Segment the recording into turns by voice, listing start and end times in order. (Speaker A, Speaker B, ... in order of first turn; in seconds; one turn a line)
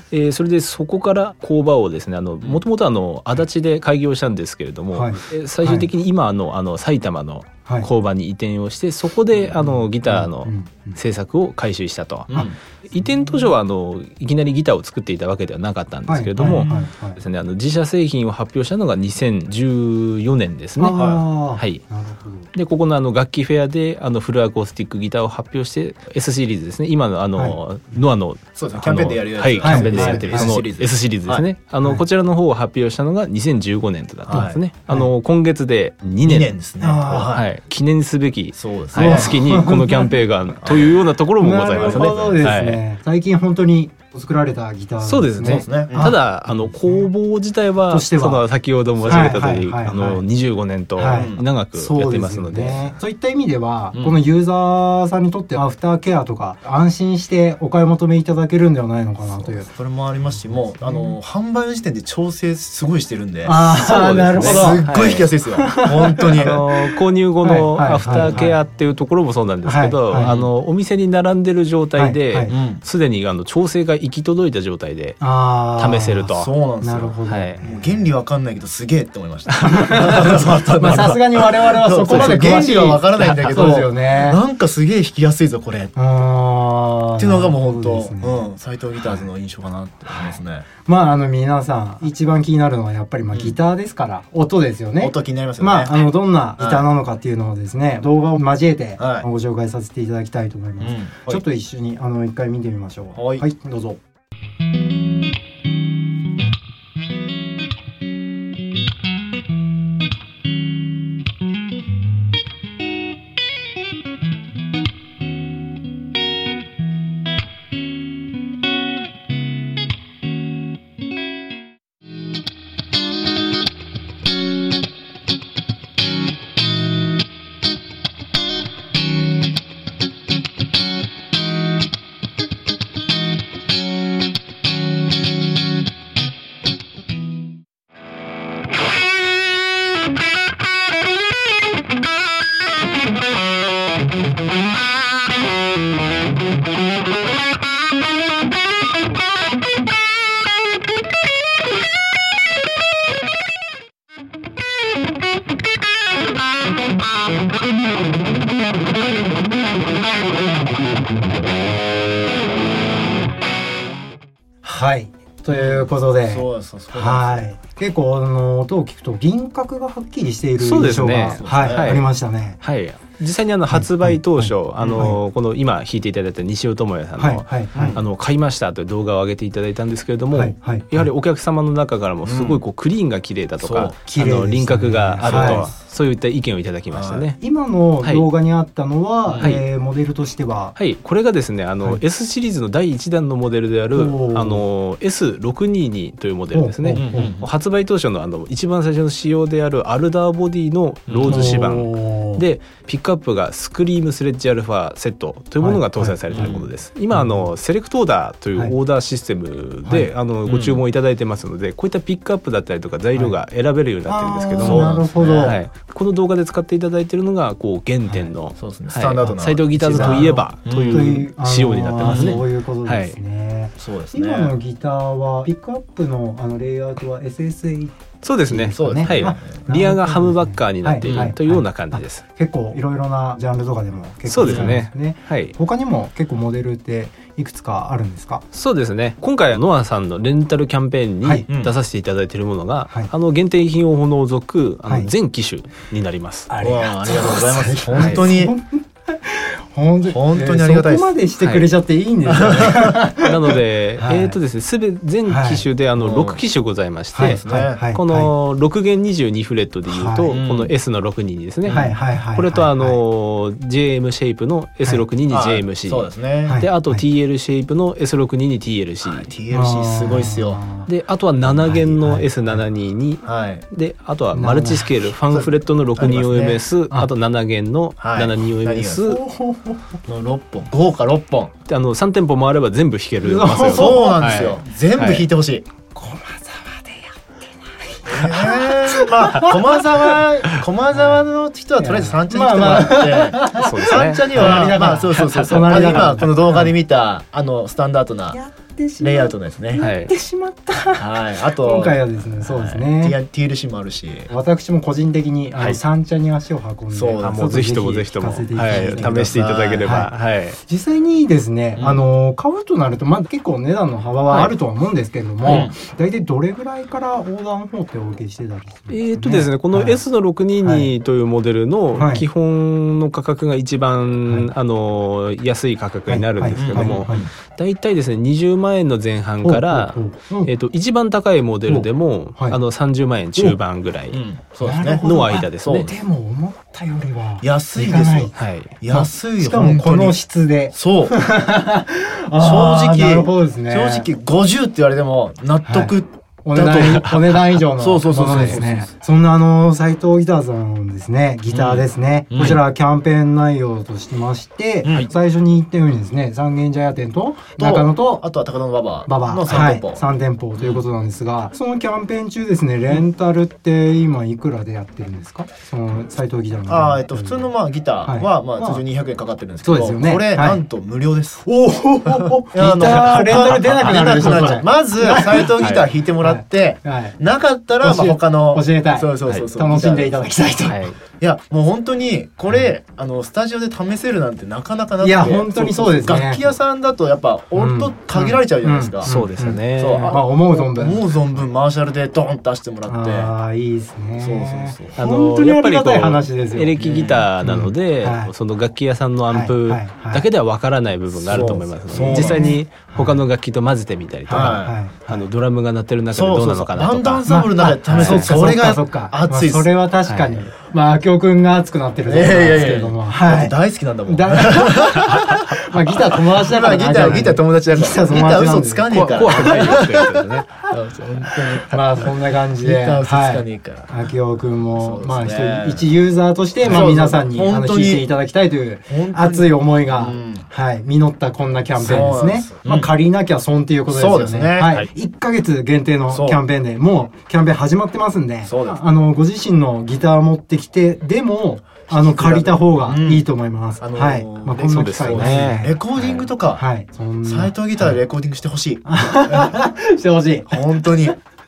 Speaker A: 0.1-21.0
Speaker B: 4.9-5.9
Speaker B: 9.6-11.0
Speaker C: 12.3-12.6
Speaker B: 12.3-13.5
Speaker B: 16.1-17.2
Speaker C: 16.4-16.9
Speaker B: 20.8-22.5
Speaker C: 20.9-21.2
Speaker A: 21.6-21.8
Speaker A: 22.5-36.5
Speaker C: 28.6-31.5
Speaker B: 29.6-30.6
Speaker B: 31.8-32.1
Speaker C: 34.3-34.6
Speaker B: 34.3-35.1
Speaker C: 36.2-37.5
Speaker B: 36.8-37.4
Speaker A: 37.1-42.8
Speaker C: 38.5-39.3
Speaker B: 38.9-40.1
Speaker C: 40.6-41.0
Speaker B: 41.4-47.1
Speaker C: 41.8-42.6
Speaker A: 45.0-53.0
Speaker C: 45.4-46.1
Speaker B: 47.9-48.5
Speaker C: 49.0-49.3
Speaker B: 49.1-50.2
Speaker B: 51.0-59.7
Speaker C: 51.0-51.5
Speaker C: 53.9-54.2
Speaker C: 59.2-63.6
Speaker B: 60.3-61.2
Speaker B: 63.5-64.9
Speaker A: 63.5-65.3
Speaker C: 64.3-66.6
Speaker B: 65.6-66.8
Speaker A: 66.3-76.5
Speaker B: 67.4-68.6
Speaker C: 68.1-68.5
Speaker B: 69.6-70.3
Speaker C: 70.2-70.5
Speaker B: 72.0-72.5
Speaker C: 72.5-72.8
Speaker B: 75.2-78.1
Speaker C: 76.4-85.9
Speaker A: 77.3-77.6
Speaker B: 79.6-84.4
Speaker A: 82.0-82.5
Speaker B: 86.0-89.3
Speaker C: 87.2-90.7
Speaker B: 90.1-104.0
Speaker C: 93.3-93.6
Speaker C: 95.0-96.9
Speaker C: 99.0-99.3
Speaker C: 100.8-101.4
Speaker C: 103.2-103.5
Speaker B: 164.6-172.6
Speaker C: 165.5-167.5
Speaker A: 170.6-172.1
Speaker C: 171.3-172.0
Speaker A: 172.6-187.4
Speaker B: 173.7-175.2
Speaker C: 174.8-175.1
Speaker B: 177.2-178.0
Speaker C: 177.7-178.0
Speaker B: 180.3-181.1
Speaker C: 182.2-182.6
Speaker C: 183.6-184.0
Speaker B: 184.1-185.7
Speaker C: 185.2-185.7
Speaker C: 186.9-187.3
Speaker B: 187.4-190.8
Speaker C: 189.3-189.6
Speaker A: 189.4-189.7
Speaker A: 190.8-223.2
Speaker B: 193.9-194.7
Speaker B: 196.5-197.3
Speaker C: 196.9-197.5
Speaker C: 201.1-201.7
Speaker B: 201.3-202.4
Speaker B: 205.6-206.5
Speaker C: 206.3-206.7
Speaker B: 207.1-207.5
Speaker B: 209.8-210.1
Speaker C: 210.4-210.8
Speaker B: 214.1-215.6
Speaker C: 214.6-215.6
Speaker C: 218.6-221.2
Speaker B: 219.9-238.4
Speaker C: 222.0-222.4
Speaker C: 223.8-224.6
Speaker A: 228.2-232.2
Speaker C: 228.7-229.6
Speaker C: 231.0-231.3
Speaker A: 234.3-235.5
Speaker C: 234.4-234.8
Speaker A: 238.5-246.5
Speaker C: 241.5-241.7
Speaker B: 244.9-245.1
Speaker B: 246.5-254.4
Speaker C: 246.6-248.6
Speaker A: 248.0-248.3
Speaker C: 250.1-251.2
Speaker A: 251.4-251.7
Speaker C: 252.2-253.1
Speaker A: 253.2-269.3
Speaker B: 255.3-255.7
Speaker C: 256.0-256.4
Speaker B: 257.1-258.3
Speaker C: 257.2-257.8
Speaker B: 259.9-260.4
Speaker C: 260.4-260.7
Speaker C: 261.6-261.9
Speaker B: 261.7-263.0
Speaker C: 265.3-266.6
Speaker B: 266.5-267.0
Speaker C: 269.0-270.6
Speaker B: 269.5-270.9
Speaker A: 270.9-279.2
Speaker B: 271.4-272.6
Speaker C: 273.2-273.6
Speaker B: 274.3-274.9
Speaker C: 275.2-276.6
Speaker C: 278.0-279.0
Speaker B: 279.1-280.0
Speaker C: 280.1-281.5
Speaker A: 281.7-285.3
Speaker B: 283.2-284.2
Speaker C: 283.7-285.6
Speaker B: 285.9-289.6
Speaker C: 288.1-298.4
Speaker B: 290.9-291.3
Speaker B: 291.8-296.7
Speaker A: 293.5-296.2
Speaker B: 298.3-303.2
Speaker C: 299.0-299.9
Speaker A: 299.8-300.1
Speaker C: 301.0-304.3
Speaker B: 304.3-320.0
Speaker C: 306.9-307.4
Speaker A: 307.2-310.6
Speaker C: 308.6-309.9
Speaker C: 311.8-312.1
Speaker C: 315.4-315.8
Speaker A: 315.5-315.7
Speaker A: 318.9-334.2
Speaker B: 320.6-320.9
Speaker B: 321.9-322.3
Speaker B: 324.3-324.5
Speaker B: 326.1-327.2
Speaker C: 326.6-327.3
Speaker B: 329.4-330.5
Speaker B: 331.7-332.6
Speaker C: 334.1-336.0
Speaker B: 334.6-338.4
Speaker A: 335.0-335.9
Speaker C: 337.4-340.2
Speaker A: 338.4-338.7
Speaker B: 338.9-344.1
Speaker C: 340.7-341.2
Speaker C: 342.4-348.9
Speaker B: 345.6-358.3
Speaker A: 348.3-348.6
Speaker C: 351.5-352.6
Speaker C: 354.9-355.1
Speaker C: 357.6-360.0
Speaker B: 359.1-367.5
Speaker C: 360.6-360.8
Speaker C: 366.7-371.5
Speaker B: 368.1-368.8
Speaker B: 369.6-370.6
Speaker B: 371.5-377.2
Speaker C: 372.1-380.3
Speaker A: 372.9-374.5
Speaker A: 375.6-375.9
Speaker B: 377.8-380.9
Speaker A: 380.7-381.0
Speaker C: 381.2-393.3
Speaker B: 385.0-386.5
Speaker B: 387.6-391.1
Speaker A: 389.1-390.2
Speaker B: 392.9-396.8
Speaker C: 394.2-395.0
Speaker A: 395.0-407.3
Speaker C: 396.8-397.3
Speaker B: 397.4-398.3
Speaker B: 399.3-400.3
Speaker C: 401.2-402.5
Speaker B: 401.3-403.2
Speaker B: 404.3-405.2
Speaker C: 404.3-404.8
Speaker C: 406.1-409.7
Speaker B: 407.3-420.1
Speaker A: 407.9-408.3
Speaker A: 410.1-410.4
Speaker C: 412.1-420.1
Speaker A: 418.9-420.5
Speaker C: 420.7-424.0
Speaker B: 421.3-445.8
Speaker C: 424.8-425.9
Speaker C: 426.6-428.1
Speaker C: 428.9-430.5
Speaker C: 431.8-432.9
Speaker C: 433.9-434.8
Speaker C: 436.1-436.4
Speaker C: 438.5-438.8
Speaker C: 441.9-443.3
Speaker C: 443.8-446.6
Speaker A: 444.6-446.3
Speaker B: 446.6-448.0
Speaker C: 447.2-449.5
Speaker B: 448.9-451.1
Speaker C: 450.5-451.2